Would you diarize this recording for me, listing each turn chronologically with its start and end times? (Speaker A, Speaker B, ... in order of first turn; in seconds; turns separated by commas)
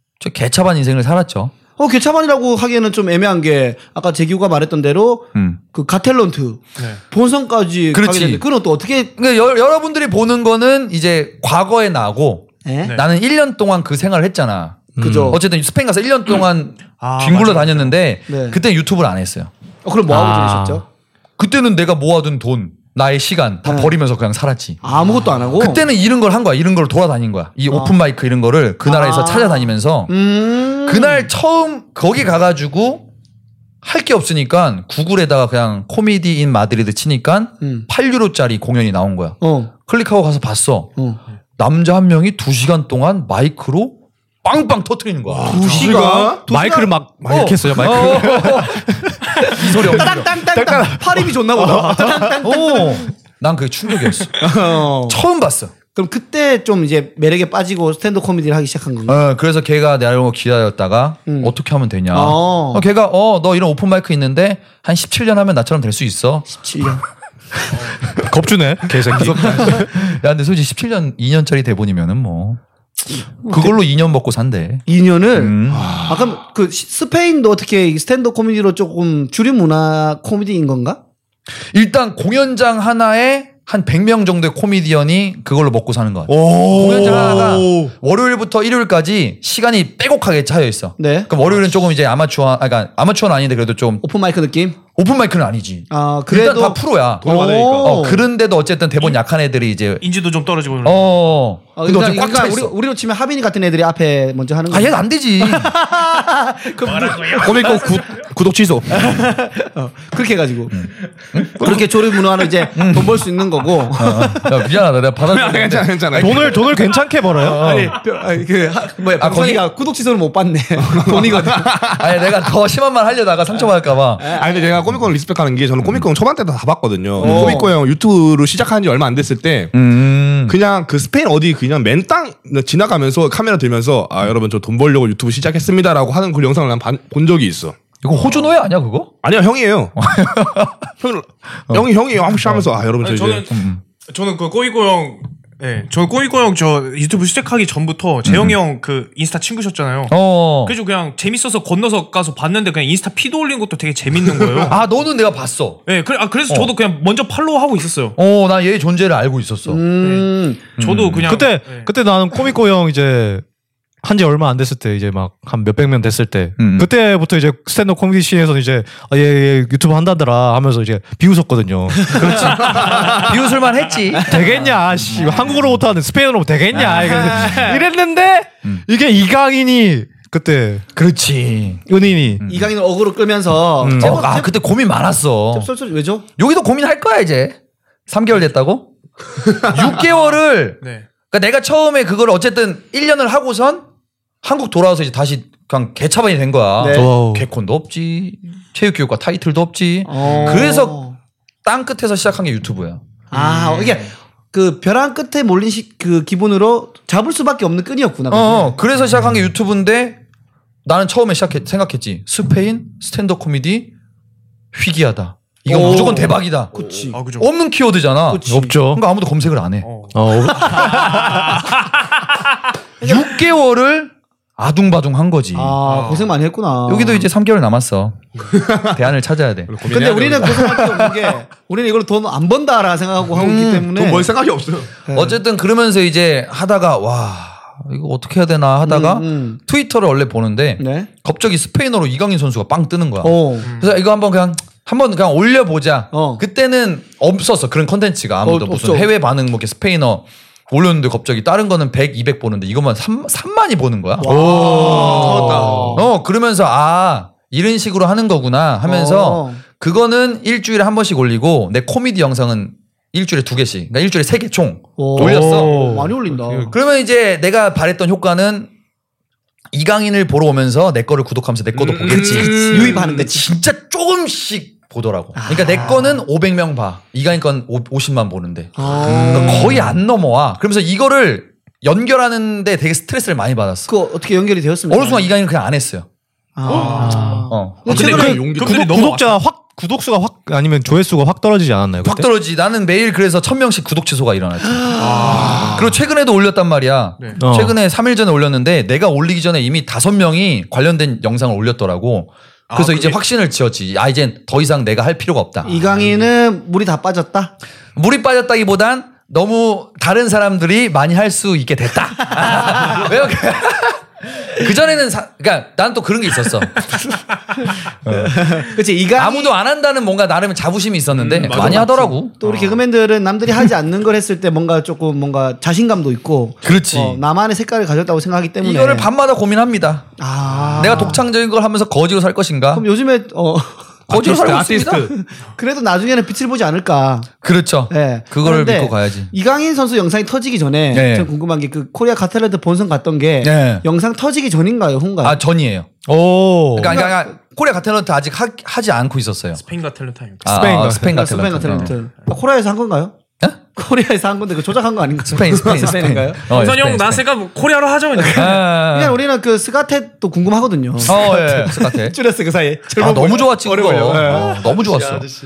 Speaker A: 0.2-1.5, Speaker B: 1.8-9.1, Speaker A: 7.9-8.4, Speaker A: 9.2-19.5, Speaker B: 12.6-13.0, Speaker C: 15.0-15.4, Speaker B: 15.0-15.4, Speaker D: 17.0-17.9, Speaker B: 18.3-18.6, Speaker B: 19.8-20.8, Speaker C: 20.1-20.8, Speaker A: 21.4-24.8, Speaker B: 23.6-23.9, Speaker B: 24.8-25.8, Speaker A: 25.6-30.1, Speaker B: 27.7-27.9, Speaker B: 28.8-31.3, Speaker A: 30.9-33.0, Speaker A: 33.8-40.9, Speaker B: 37.6-37.9, Speaker B: 39.4-39.7, Speaker A: 41.6-45.6, Speaker E: 45.3-46.4, Speaker B: 45.5-46.9, Speaker D: 45.6-46.0, Speaker C: 46.5-52.3, Speaker A: 47.3-50.4, Speaker B: 49.6-53.1, Speaker A: 52.4-54.5, Speaker B: 54.4-55.2, Speaker A: 55.1-55.7, Speaker B: 55.9-59.2, Speaker A: 59.1-66.5, Speaker B: 61.3-61.5, Speaker B: 62.1-62.8, Speaker B: 66.5-67.0, Speaker C: 68.1-69.9, Speaker A: 69.1-72.6, Speaker B: 73.1-73.8, Speaker A: 73.4-76.0, Speaker B: 74.9-81.0, Speaker E: 75.7-76.2, Speaker A: 81.7-94.0, Speaker E: 86.3-87.2, Speaker C: 86.4-87.9, Speaker B: 91.0-91.3, Speaker B: 94.0-94.8, Speaker A: 94.9-100.0, Speaker B: 95.9-98.2, Speaker E: 97.2-98.0, Speaker D: 100.0-101.1, Speaker A: 100.8-102.7, Speaker B: 101.8-107.8, Speaker A: 104.7-105.7, Speaker D: 106.8-108.0, Speaker E: 107.4-109.2, Speaker B: 108.9-110.9, Speaker A: 110.7-113.3, Speaker B: 111.4-114.5, Speaker A: 114.0-116.5, Speaker E: 115.2-116.8, Speaker C: 116.2-117.8, Speaker B: 117.3-121.8, Speaker A: 117.4-118.0, Speaker A: 119.2-119.6, Speaker E: 120.8-122.0, Speaker A: 122.0-124.2, Speaker B: 124.2-124.6, Speaker E: 124.3-129.7, Speaker B: 127.2-127.7, Speaker A: 127.2-127.6, Speaker A: 129.7-130.6, Speaker E: 130.4-137.8, Speaker A: 138.0-139.1, Speaker E: 139.2-139.9, Speaker A: 140.0-140.9, Speaker E: 141.0-143.5, Speaker D: 143.0-154.8, Speaker A: 143.5-143.8, Speaker A: 148.2-148.6, Speaker A: 150.1-150.7, Speaker A: 154.7-155.8, Speaker D: 155.8-158.2, Speaker A: 158.2-159.8, Speaker B: 159.7-160.6, Speaker D: 160.0-161.9, Speaker A: 160.8-161.3, Speaker C: 161.3-163.4, Speaker C: 164.0-173.3, Speaker A: 166.6-166.9, Speaker A: 172.1-174.5, Speaker D: 172.6-173.2, Speaker C: 174.2-180.9, Speaker A: 175.1-175.8, Speaker A: 176.7-177.6, Speaker B: 177.2-177.8, Speaker A: 180.9-181.8, Speaker C: 181.9-182.4, Speaker A: 182.4-182.7, Speaker B: 182.4-184.5, Speaker C: 183.8-184.2, Speaker A: 184.0-185.7, Speaker B: 185.5-186.2, Speaker A: 186.4-188.9, Speaker A: 189.6-193.8, Speaker D: 190.0-191.1, Speaker A: 194.4-201.0, Speaker B: 196.8-197.1, Speaker C: 196.9-197.4, Speaker B: 200.1-201.2, Speaker D: 200.2-200.7, Speaker A: 201.6-203.0, Speaker B: 203.3-208.7, Speaker D: 203.3-204.1, Speaker A: 208.3-210.2, Speaker A: 210.8-213.9, Speaker A: 214.7-216.8, Speaker B: 215.7-217.2, Speaker E: 215.7-216.1, Speaker D: 217.1-217.5, Speaker A: 217.3-219.9, Speaker B: 218.3-218.8, Speaker C: 218.5-219.0, Speaker D: 219.8-222.4, Speaker C: 220.1-221.4, Speaker B: 220.8-221.1, Speaker A: 223.0-225.8, Speaker B: 225.5-227.3, Speaker D: 225.8-226.3, Speaker A: 226.9-229.8, Speaker E: 228.5-229.0, Speaker E: 229.7-231.3, Speaker B: 229.9-234.3, Speaker E: 233.3-234.9, Speaker A: 233.4-233.8, Speaker B: 235.1-235.4, Speaker A: 235.1-265.8, Speaker B: 238.8-239.6, Speaker B: 240.8-241.1, Speaker B: 243.2-243.7, Speaker D: 243.7-243.9, Speaker B: 246.1-246.4, Speaker B: 248.4-249.1, Speaker B: 254.2-256.0, Speaker E: 254.2-256.1, Speaker B: 258.8-259.6, Speaker B: 265.0-266.7, Speaker C: 265.1-266.7, Speaker D: 265.6-265.9, Speaker A: 266.6-268.7, Speaker A: 269.7-283.9, Speaker E: 271.7-273.2, Speaker B: 272.5-273.5, Speaker B: 275.4-276.2, Speaker B: 278.8-280.0, Speaker B: 283.9-285.3, Speaker A: 284.9-286.1, Speaker B: 286.6-288.4, Speaker D: 286.7-289.4, Speaker C: 287.0-292.3, Speaker A: 287.5-288.3, Speaker E: 287.9-288.9, Speaker A: 292.0-305.9, Speaker B: 294.6-295.7, Speaker D: 294.9-295.8, Speaker E: 295.4-295.8, Speaker C: 297.4-297.8, Speaker D: 302.7-303.2, Speaker B: 305.6-307.5, Speaker A: 307.9-316.9, Speaker B: 312.4-313.0, Speaker B: 317.5-319.5, Speaker A: 318.0-318.5, Speaker A: 319.1-322.4, Speaker E: 321.2-322.1, Speaker B: 322.4-329.1, Speaker D: 322.4-322.8, Speaker A: 326.6-327.2, Speaker A: 328.6-330.1, Speaker B: 330.2-331.2, Speaker D: 330.5-330.9, Speaker A: 330.8-332.9, Speaker B: 332.7-333.9, Speaker A: 334.1-335.1, Speaker E: 334.1-335.1, Speaker B: 335.1-337.3, Speaker A: 337.4-339.3, Speaker B: 337.9-345.4, Speaker A: 340.9-341.3, Speaker A: 343.4-343.8, Speaker A: 345.2-345.9, Speaker C: 346.1-347.0, Speaker A: 346.7-349.6, Speaker B: 346.9-347.2, Speaker D: 349.5-350.8, Speaker A: 350.4-351.9, Speaker C: 350.4-351.1, Speaker B: 350.9-353.1, Speaker D: 351.9-352.3, Speaker B: 353.7-356.7, Speaker A: 355.2-357.2, Speaker D: 356.5-358.6, Speaker B: 358.1-365.3, Speaker A: 358.3-359.2, Speaker A: 361.1-362.2, Speaker A: 362.9-365.3